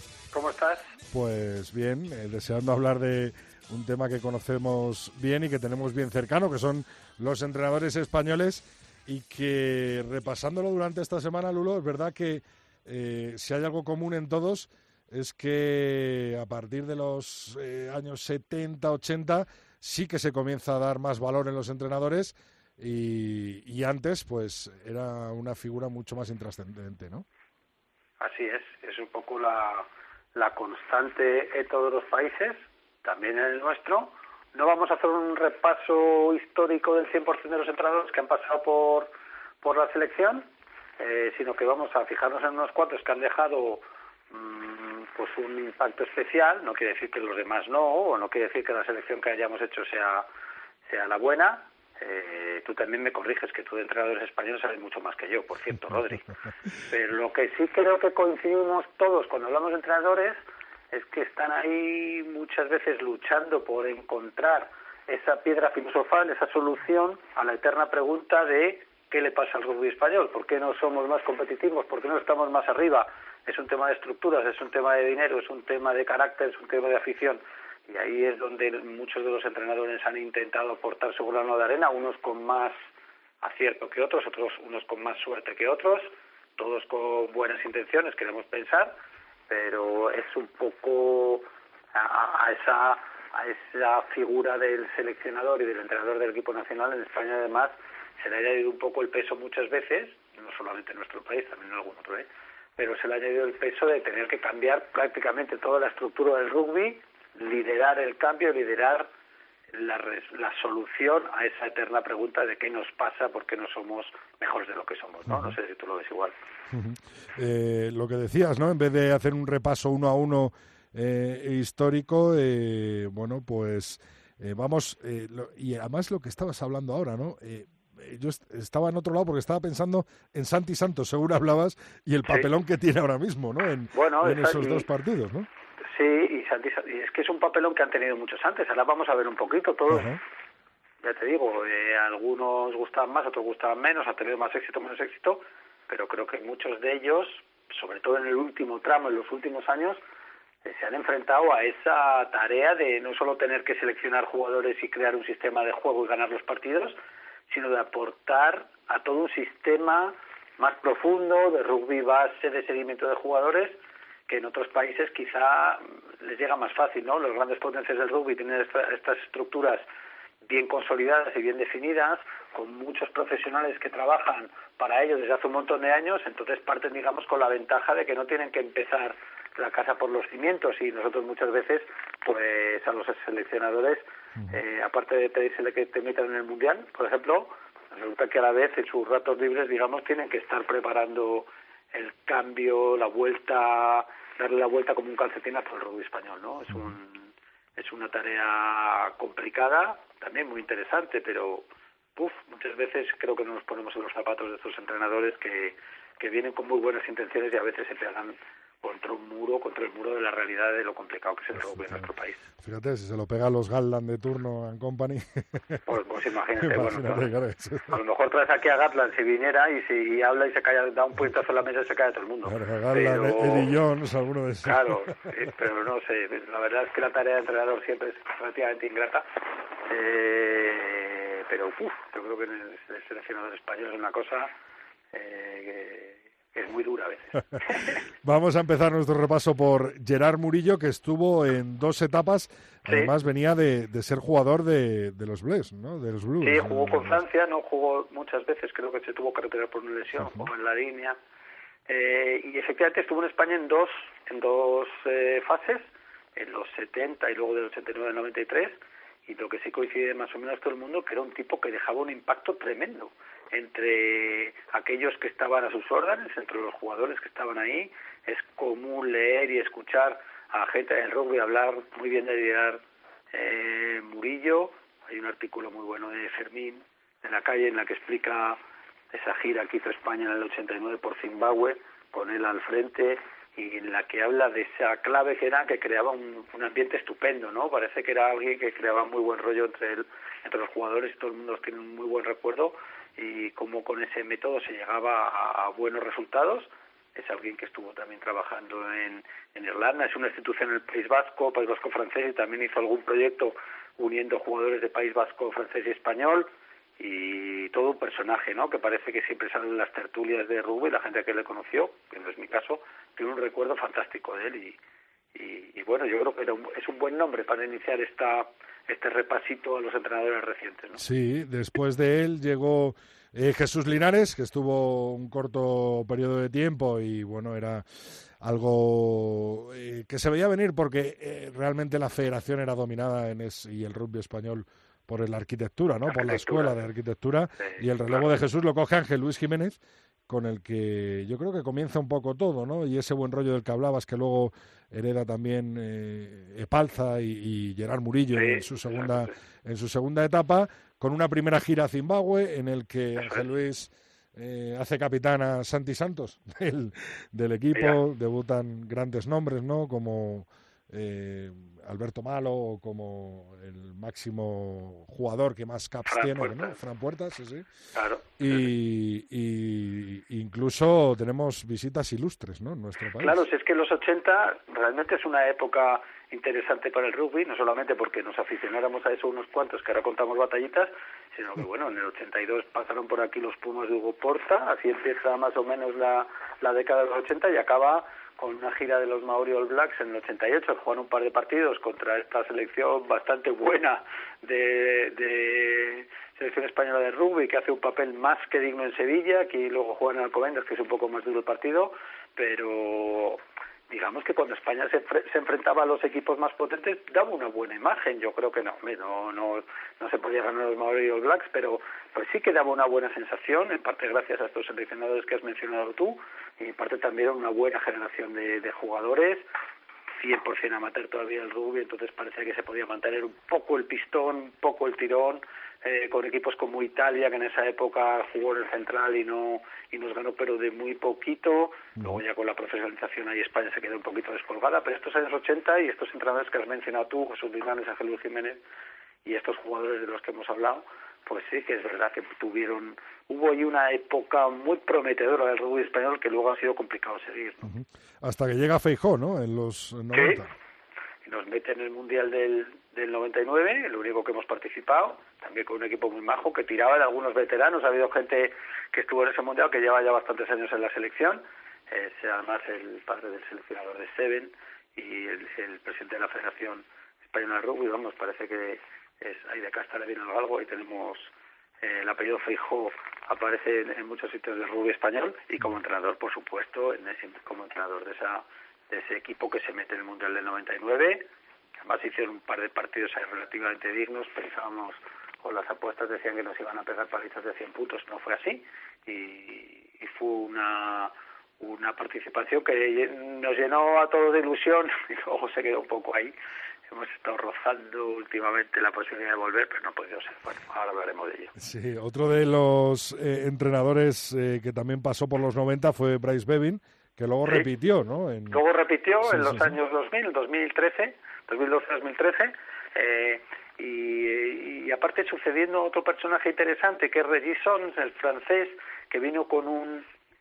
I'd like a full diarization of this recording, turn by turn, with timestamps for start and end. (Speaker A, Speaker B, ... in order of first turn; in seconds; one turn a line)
Speaker A: 0.3-0.8
Speaker B: 1.1-27.3
Speaker A: 28.2-39.1
Speaker A: 39.6-40.5
Speaker A: 41.0-50.2
Speaker A: 50.9-56.3
Speaker A: 56.9-60.4
Speaker A: 60.9-82.7
Speaker A: 83.4-88.9
Speaker A: 89.5-91.4
Speaker A: 92.0-102.3
Speaker A: 102.8-109.1
Speaker A: 109.7-116.3
Speaker B: 115.3-115.5
Speaker B: 116.7-135.5
Speaker A: 133.9-134.9
Speaker A: 135.9-140.1
Speaker B: 139.9-140.2
Speaker A: 141.0-150.0
Speaker A: 150.7-156.9
Speaker A: 157.5-163.7
Speaker A: 164.3-169.8
Speaker A: 170.5-184.0
Speaker A: 184.5-201.7
Speaker A: 202.2-212.4
Speaker B: 212.6-215.8
Speaker A: 215.9-217.3
Speaker B: 216.6-218.0
Speaker A: 217.9-223.7
Speaker B: 222.4-225.3
Speaker A: 224.7-229.2
Speaker A: 229.9-234.5
Speaker A: 235.1-237.8
Speaker B: 238.2-247.2
Speaker A: 246.4-251.2
Speaker B: 250.2-250.4
Speaker A: 251.9-258.8
Speaker A: 259.3-272.8
Speaker A: 273.3-278.6
Speaker A: 279.1-306.5
Speaker A: 307.0-314.8
Speaker A: 315.4-321.0
Speaker B: 321.0-327.9
Speaker B: 328.4-367.7
Speaker A: 336.1-336.8
Speaker A: 337.6-338.2
Speaker A: 348.4-349.3
Speaker A: 366.1-366.8
Speaker A: 367.9-368.6
Speaker B: 368.4-373.5
Speaker A: 373.2-419.4
Speaker A: 420.2-438.6
Speaker A: 439.3-447.6
Speaker B: 447.6-450.5
Speaker A: 450.1-450.4
Speaker A: 451.3-471.3
Speaker A: 471.8-481.2
Speaker A: 481.8-496.3
Speaker A: 496.9-501.5
Speaker B: 501.6-508.6
Speaker A: 508.5-520.0
Speaker B: 509.2-509.8